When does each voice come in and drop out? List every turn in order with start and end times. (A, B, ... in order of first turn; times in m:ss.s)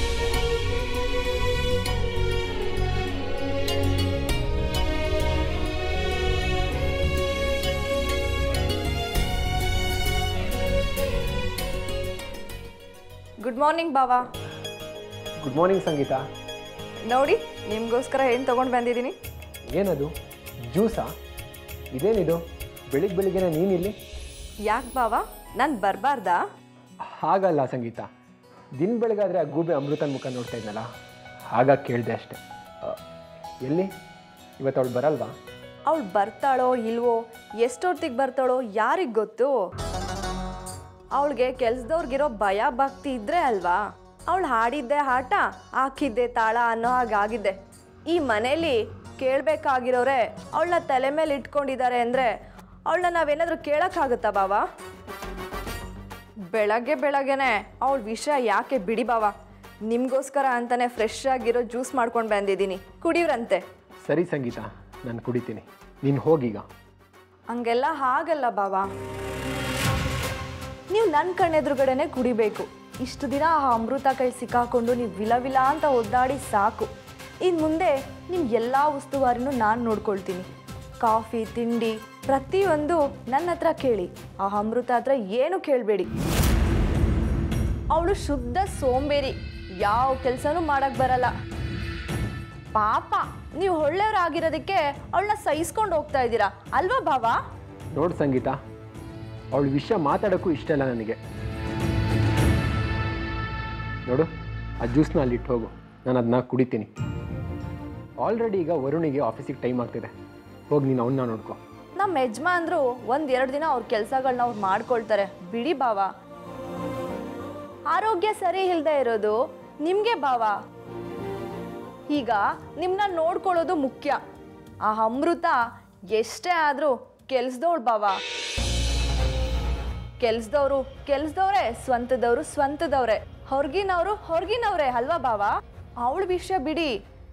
0:13.4-0:14.2 A
0:15.4-0:16.2 B
0:17.1-0:19.2 A
0:19.7-0:20.1 B
0:20.7-0:21.1 B
0:21.9-0:24.0 B
0:24.7-0:26.4 A
0:27.0-0:28.1 B
0:28.8-0:30.9 B
0:31.5-0:33.0 B
0:34.6-0:35.3 B
0:35.9-0:39.6 A
0:41.2-0:47.6 A
0:48.1-0:52.3 A
0:52.9-0:54.6 A
0:56.5-0:59.3 A
0:59.9-1:03.6 A
1:04.0-1:06.7 B
1:07.5-1:08.9 A
1:10.9-1:16.9 A
1:17.4-1:20.5 A
1:21.0-1:26.1 A
1:27.9-1:31.3 A
1:32.8-1:37.4 A
1:37.9-1:38.6 B
1:39.5-1:41.2 B
1:44.8-1:46.9 B
1:48.2-1:50.1 B
1:50.7-1:51.6 B
1:52.0-1:56.1 A
1:57.9-2:00.5 A
2:02.1-2:04.2 A
2:04.9-2:05.6 A
2:06.1-2:08.2 A
2:10.2-2:15.5 A
2:16.0-2:16.9 A